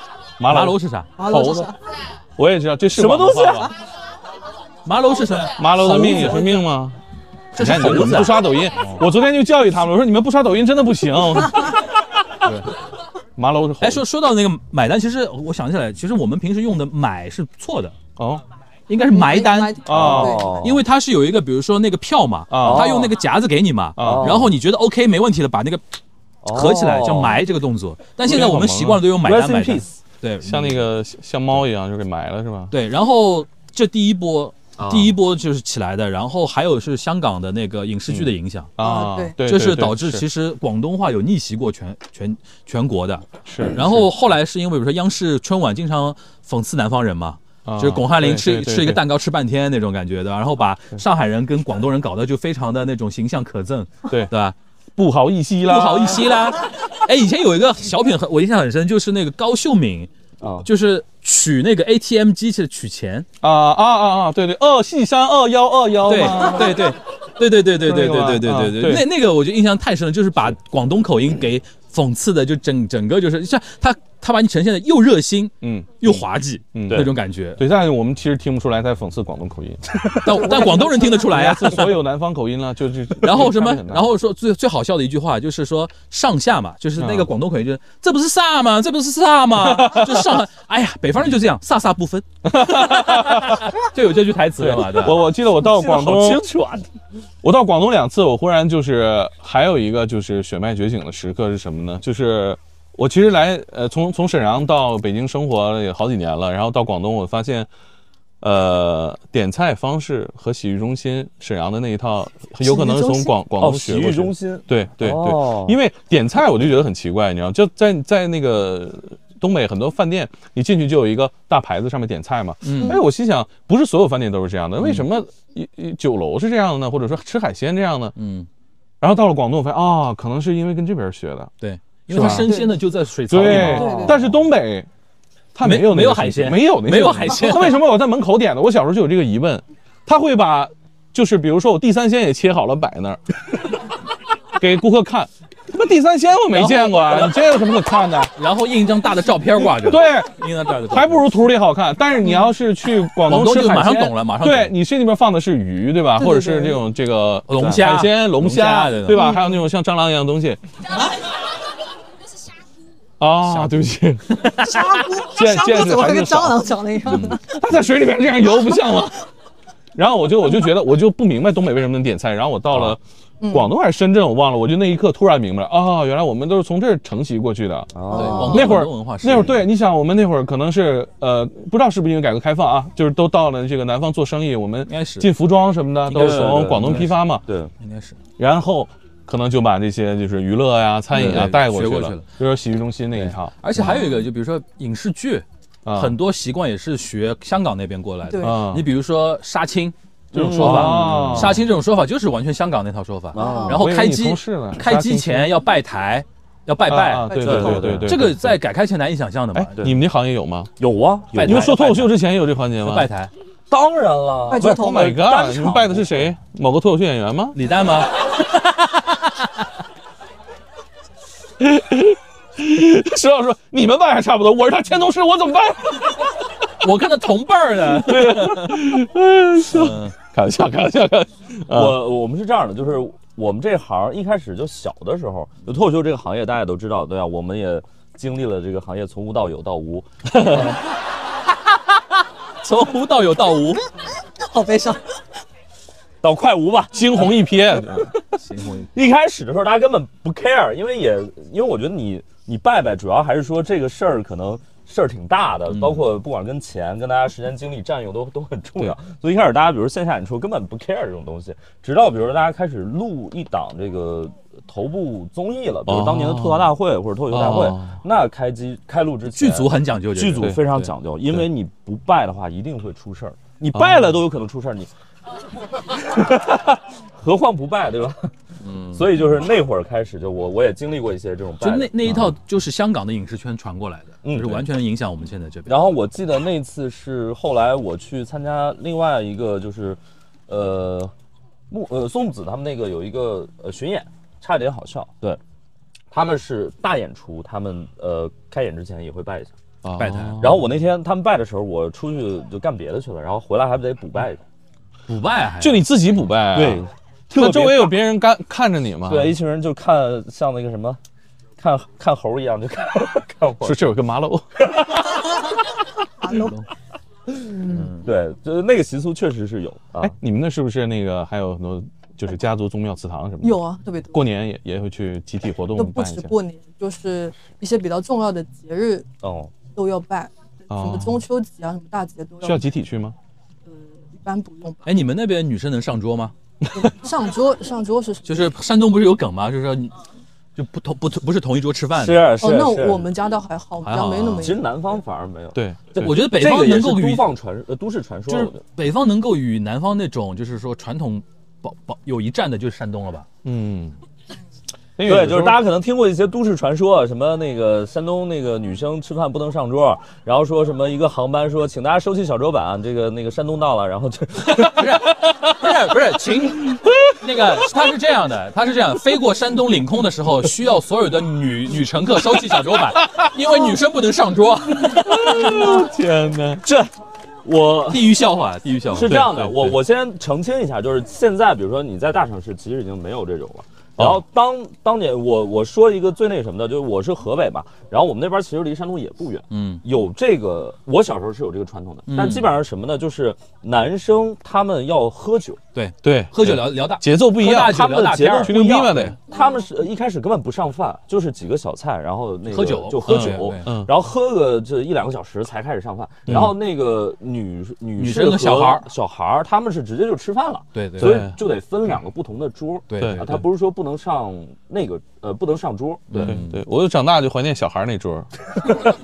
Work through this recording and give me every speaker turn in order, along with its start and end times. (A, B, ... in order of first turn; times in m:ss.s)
0:00.4-0:01.7 A
0:00.5-0:01.1 B
0:01.2-0:01.8 C
0:02.4-0:03.7 A
0:02.9-0:03.7 D
0:04.8-0:06.6 B
0:05.6-0:07.0 A
0:07.6-0:09.0 B
0:07.6-0:11.8 A
0:12.4-0:12.7 B
0:13.4-0:14.0 A
0:13.8-0:18.0 B
0:18.2-0:18.4 A
0:18.9-0:25.8 B
0:19.1-0:20.6 C
0:19.8-0:20.5 A
0:19.9-0:20.8 D
0:22.5-0:23.0 A
0:22.6-0:23.2 D
0:24.0-0:24.5 A
0:24.0-0:24.5 D
0:26.4-0:27.4 D
0:26.5-0:30.8 B
0:28.2-0:29.1 A
0:29.2-0:29.9 D
0:30.4-0:32.7 A
0:32.7-0:38.7 B
0:34.8-0:35.2 D
0:38.1-0:40.2 A
0:38.8-0:39.4 C
0:39.4-0:54.6 B
0:43.5-0:44.1 A
0:47.6-0:49.0 A
0:55.0-0:56.4 A
0:55.6-1:00.1 B
1:00.4-1:00.7 D
1:00.6-1:03.3 B
1:03.4-1:06.9 A
1:06.0-1:17.6 B
1:07.8-1:09.1 A
1:15.6-1:24.1 A
1:20.2-1:22.0 B
1:23.2-1:35.3 B
1:27.0-1:27.3 A
1:29.6-1:30.4 A
1:32.4-1:33.7 A
1:34.6-1:36.4 A
1:35.5-1:36.9 D
1:37.4-1:47.7 A
1:48.4-2:08.1 A
1:52.6-1:53.4 C
1:53.6-1:55.8 D
2:02.6-2:03.0 B
2:04.8-2:05.1 B
2:08.2-2:08.5 B
2:09.0-2:11.5 A
2:11.6-2:14.3 B
2:12.1-2:12.6 A
2:12.3-2:12.7 C
2:13.3-2:14.9 A
2:13.4-2:14.2 C
2:15.6-2:23.7 A
2:15.6-2:17.8 B
2:24.6-2:28.3 A
2:26.5-2:27.4 B
2:28.4-2:31.3 B
2:29.6-2:40.6 A
2:33.3-2:34.8 B
2:36.2-2:36.8 C
2:37.5-2:39.3 B
2:39.1-2:39.6 C
2:43.2-2:44.5 A
2:44.3-2:44.7 B
2:44.7-2:47.6 C
2:45.2-2:49.2 A
2:47.1-2:47.3 B
2:50.0-3:07.4 A
2:53.4-2:53.7 C
2:57.9-2:58.7 D
2:58.1-2:59.6 B
2:58.1-2:58.6 C
3:04.9-3:05.3 B
3:06.1-3:07.2 B
3:06.1-3:07.7 D
3:07.8-3:08.2 B
3:08.4-3:13.9 A
3:11.1-3:12.3 B
3:13.2-3:29.9 B
3:13.8-3:14.2 C
3:15.8-3:16.2 A
3:18.3-3:18.6 C
3:18.4-3:18.9 A
3:20.3-3:21.6 D
3:20.4-3:21.6 A
3:23.3-3:23.8 D
3:23.4-3:23.8 C
3:23.7-3:25.5 A
3:26.9-3:28.6 A
3:27.3-3:27.8 C
3:27.4-3:28.2 D
3:29.5-3:30.7 A
3:30.8-3:31.8 D
3:31.3-3:32.2 B
3:31.4-3:33.1 A
3:32.8-3:33.3 B
3:33.7-3:36.3 D
3:34.5-3:35.2 C
3:34.5-3:37.6 A
3:37.6-3:39.5 B
3:41.6-3:46.4 A
3:46.8-3:48.8 B
3:48.0-3:52.1 A
3:49.7-3:50.1 B
3:51.7-4:00.8 D
4:00.4-4:00.7 A
4:02.6-4:03.8 B
4:04.4-4:05.0 C
4:06.2-4:07.3 D
4:06.9-4:08.1 A
4:08.4-4:08.9 B
4:08.9-4:34.9 D
4:15.7-4:16.1 B
4:25.9-4:26.8 A
4:27.3-4:28.0 A
4:29.3-4:30.9 B
4:33.7-4:34.2 A
4:35.9-4:38.3 D
4:38.6-4:39.1 B
4:38.9-4:42.3 D
4:41.6-4:45.9 B
4:44.2-4:44.6 D
4:45.7-4:51.1 D
4:51.7-4:55.4 D
4:56.1-4:59.5 D
4:59.8-5:00.7 A
5:00.0-5:00.6 B
5:00.4-5:04.4 D
5:05.1-5:05.9 B
5:05.6-5:09.4 A
5:06.5-5:08.0 D
5:09.1-5:11.0 D
5:11.6-5:13.8 D
5:13.6-5:14.7 A
5:16.2-5:16.6 C
5:16.3-5:16.6 B
5:17.7-5:20.1 D
5:17.7-5:18.0 B
5:20.0-5:23.6 A
5:23.4-5:24.2 C
5:24.1-5:26.3 A
5:25.8-5:29.1 C
5:29.2-5:29.5 D
5:29.8-5:32.7 C
5:30.7-5:31.2 A
5:32.4-5:33.2 A
5:34.0-5:34.9 C
5:34.9-5:36.3 B
5:36.7-5:38.2 C
5:38.2-5:40.0 B
5:40.6-5:42.3 B
5:41.9-5:43.1 D
5:42.4-5:44.6 C
5:43.8-5:44.5 B
5:43.9-5:44.2 A
5:44.4-5:48.6 D
5:45.6-5:46.2 A
5:46.0-5:47.3 B
5:48.3-5:53.3 B
5:53.4-5:54.0 A
5:55.0-5:55.6 A
5:55.0-6:04.8 D
6:04.5-6:15.8 B
6:14.9-6:16.6 A
6:16.6-6:16.9 D
6:17.4-6:18.2 D
6:17.9-6:19.6 B
6:18.9-6:35.6 D
6:19.1-6:19.7 A
6:29.5-6:29.8 B
6:32.1-6:32.5 B
6:35.7-6:39.1 B
6:36.0-6:37.9 A
6:37.5-6:56.4 D
6:38.4-6:39.2 A
6:42.5-6:43.7 B
6:43.0-6:43.9 A
6:46.3-6:46.6 A
6:48.0-6:48.9 B
6:50.8-6:51.3 B
6:51.0-6:51.4 A
6:52.9-6:53.5 B
6:53.0-6:53.4 A
6:56.1-6:56.6 B
6:56.2-6:58.3 A